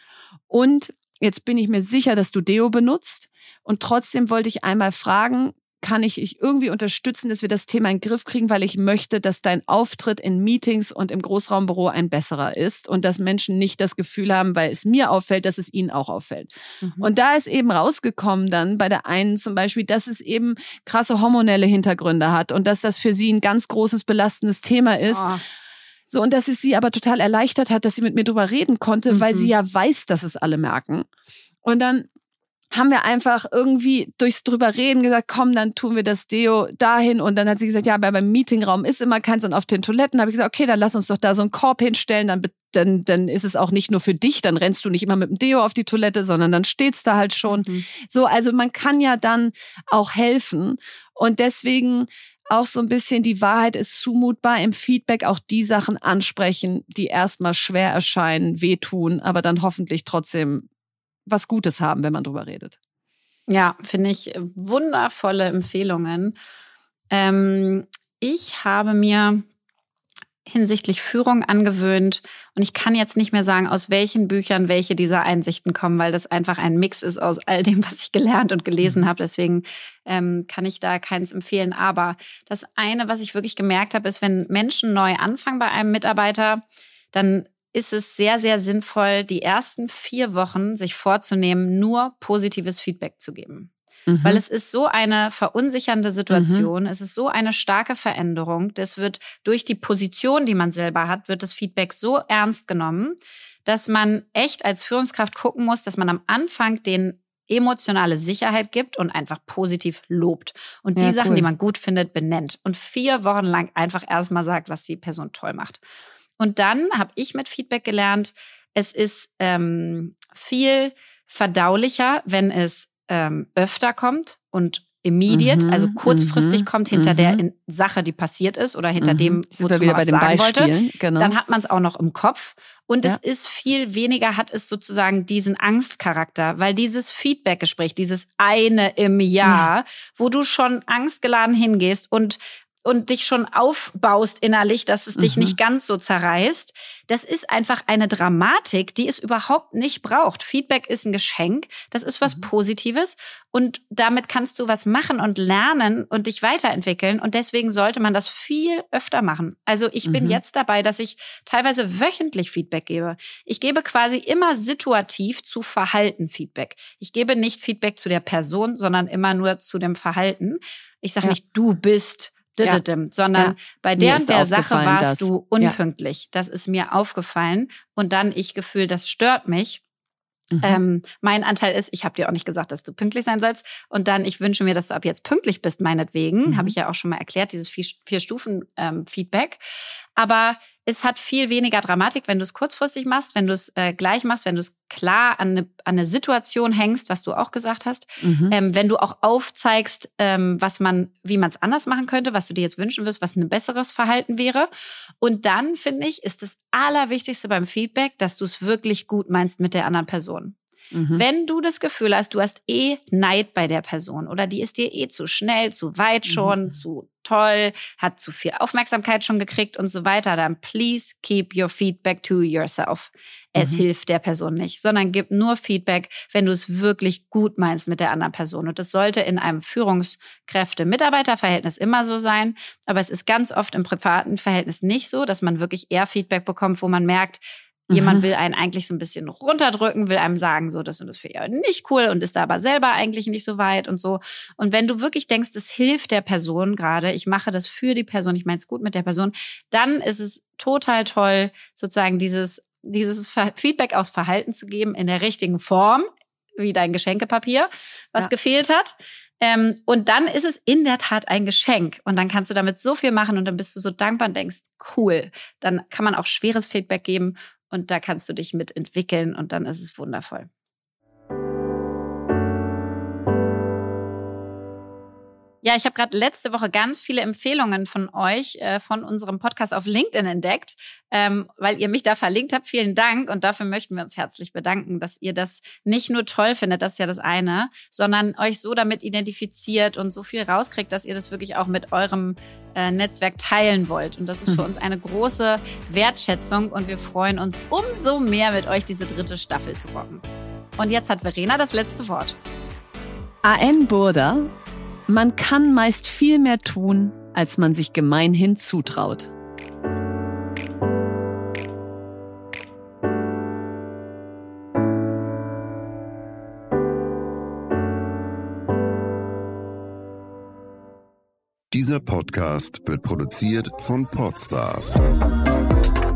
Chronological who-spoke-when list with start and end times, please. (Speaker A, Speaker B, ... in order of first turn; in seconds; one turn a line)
Speaker A: 0.5-25.3
Speaker B: 16.8-17.1
Speaker B: 25.1-25.4
Speaker A: 26.1-31.1
Speaker B: 29.1-29.5
Speaker A: 31.6-32.1
Speaker A: 32.7-60.6
Speaker B: 47.5-47.9
Speaker A: 61.3-62.8
Speaker B: 63.5-66.3
Speaker B: 67.1-69.4
Speaker B: 70.5-93.7
Speaker A: 94.1-94.4
Speaker B: 94.2-115.8
Speaker A: 96.3-96.7
Speaker A: 111.0-111.5
Speaker B: 116.4-179.8
Speaker A: 125.3-127.4
Speaker A: 129.0-131.3
Speaker A: 145.2-145.5
Speaker A: 160.0-160.4
Speaker A: 173.3-175.8
Speaker A: 180.5-180.8
Speaker B: 180.6-189.6
Speaker A: 186.4-186.7
Speaker B: 190.2-204.7
Speaker A: 198.2-198.5
Speaker B: 205.2-210.6
Speaker A: 210.9-211.2
Speaker B: 211.1-270.5
Speaker A: 216.3-216.7
Speaker A: 223.6-223.8
Speaker A: 237.9-238.2
Speaker B: 275.6-300.2
Speaker B: 300.8-302.4
Speaker A: 303.4-304.5
Speaker A: 305.1-309.3
Speaker C: 321.7-325.0